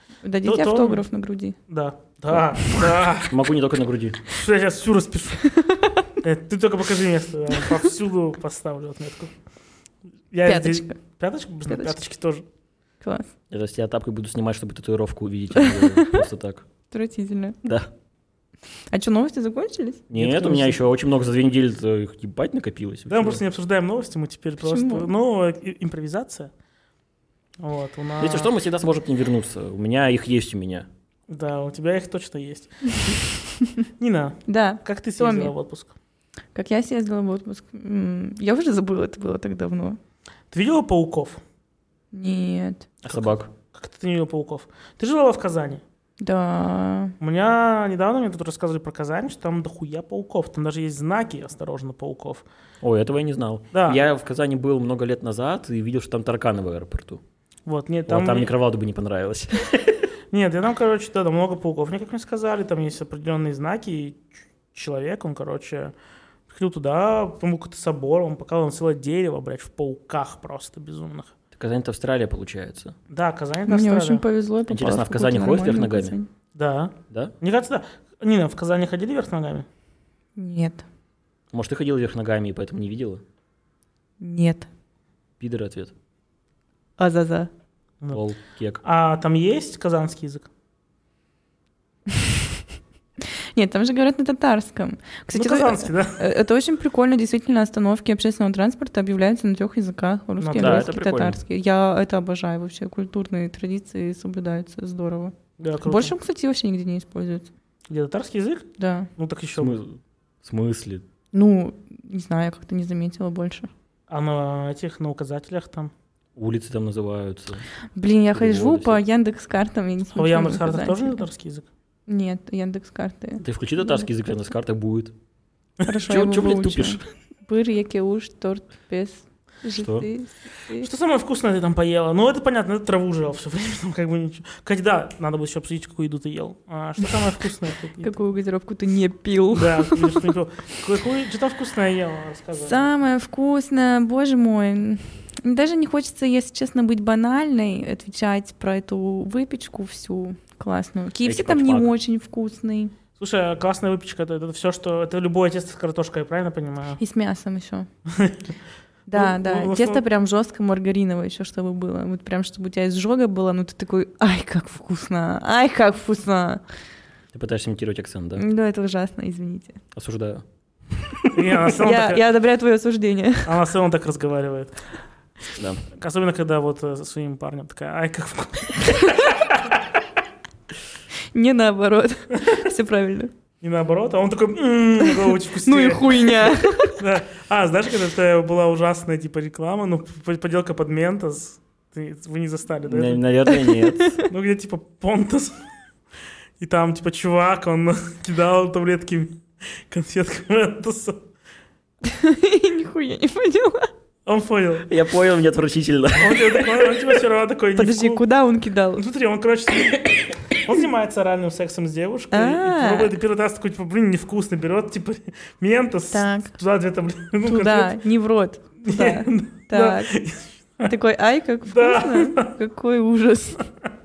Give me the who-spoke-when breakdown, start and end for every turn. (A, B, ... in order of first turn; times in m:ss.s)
0:00.2-0:01.6 A
0:00.4-0:01.0 B
0:01.7-0:03.3 B
0:02.7-0:04.2 C
0:04.3-0:05.5 B
0:05.4-0:06.1 A
0:06.2-0:09.3 B
0:10.3-0:12.4 B
0:10.4-0:11.0 A
0:11.7-0:12.0 A
0:13.0-0:13.3 A
0:13.5-0:16.7 C
0:15.6-0:16.2 A
0:16.9-0:17.6 A
0:17.6-0:17.9 C
0:18.9-0:20.1 A
0:20.1-0:23.4 C
0:20.2-0:20.8 B
0:23.1-0:26.5 B
0:24.6-0:25.1 A
0:27.6-0:28.5 B
0:28.2-0:30.9 C
0:31.3-0:33.2 B
0:34.0-0:35.9 B
0:34.5-0:35.5 A
0:36.5-0:40.0 A
0:40.5-0:41.4 B
0:42.1-0:42.9 A
0:43.0-0:43.5 C
0:43.1-0:45.8 B
0:46.2-0:47.2 A
0:47.2-0:52.4 B
0:52.8-0:57.2 C
0:53.7-0:54.0 B
0:57.7-0:58.5 B
0:58.1-1:00.0 C
1:00.3-1:05.9 B
1:06.5-1:11.3 B
1:11.5-1:13.0 C
1:13.1-1:14.2 B
1:13.7-1:16.3 A
1:14.7-1:16.2 C
1:16.6-1:19.7 B
1:20.4-1:20.8 A
1:21.5-1:23.2 C
1:24.2-1:24.7 A
1:25.4-1:25.9 C
1:27.0-1:27.5 A
1:28.1-1:28.8 C
1:28.8-1:30.5 B
1:33.2-1:47.5 A
1:35.3-1:36.2 B
1:40.4-1:40.9 B
1:40.6-1:41.4 C
1:45.6-1:46.1 B
1:47.9-1:49.8 B
1:48.8-1:49.1 A
1:49.6-1:51.0 C
1:51.3-1:53.7 A
1:54.1-1:55.9 B
1:56.4-1:57.6 C
1:58.0-2:01.2 A
1:58.3-1:59.0 C
2:00.1-2:01.7 B
2:02.1-2:04.1 A
2:03.4-2:05.1 C
2:05.9-2:10.9 A
2:06.0-2:07.0 C
2:09.8-2:10.1 C
2:10.8-2:18.1 B
2:18.0-2:20.3 A
2:19.5-2:22.9 B
2:22.6-2:32.9 A
2:31.2-2:31.9 C
2:33.2-2:37.0 B
2:37.0-2:37.9 A
2:38.1-2:38.4 B
2:39.1-2:46.6 A
2:39.1-2:40.0 B
2:47.3-2:48.4 C
2:48.4-2:49.8 A
2:49.9-2:50.4 C
2:51.3-2:52.2 B
2:51.8-2:53.6 A
2:53.4-2:54.8 B
2:55.6-2:55.8 C
2:55.9-2:59.6 B
3:01.3-3:03.3 A
3:03.6-3:13.2 B
3:05.0-3:07.0 A
3:12.9-3:14.2 C
3:13.5-3:14.2 A
3:14.3-3:15.6 B
3:16.6-3:21.2 B
3:22.0-3:23.9 A
3:24.3-3:24.9 B
3:24.9-3:26.6 C
3:26.2-3:28.2 B
3:27.8-3:29.0 A
3:29.0-3:38.0 B
3:32.3-3:33.2 A
3:36.1-3:36.5 A
3:37.4-3:40.2 A
3:38.8-3:40.9 B
3:40.8-3:43.6 A
3:41.7-3:42.5 B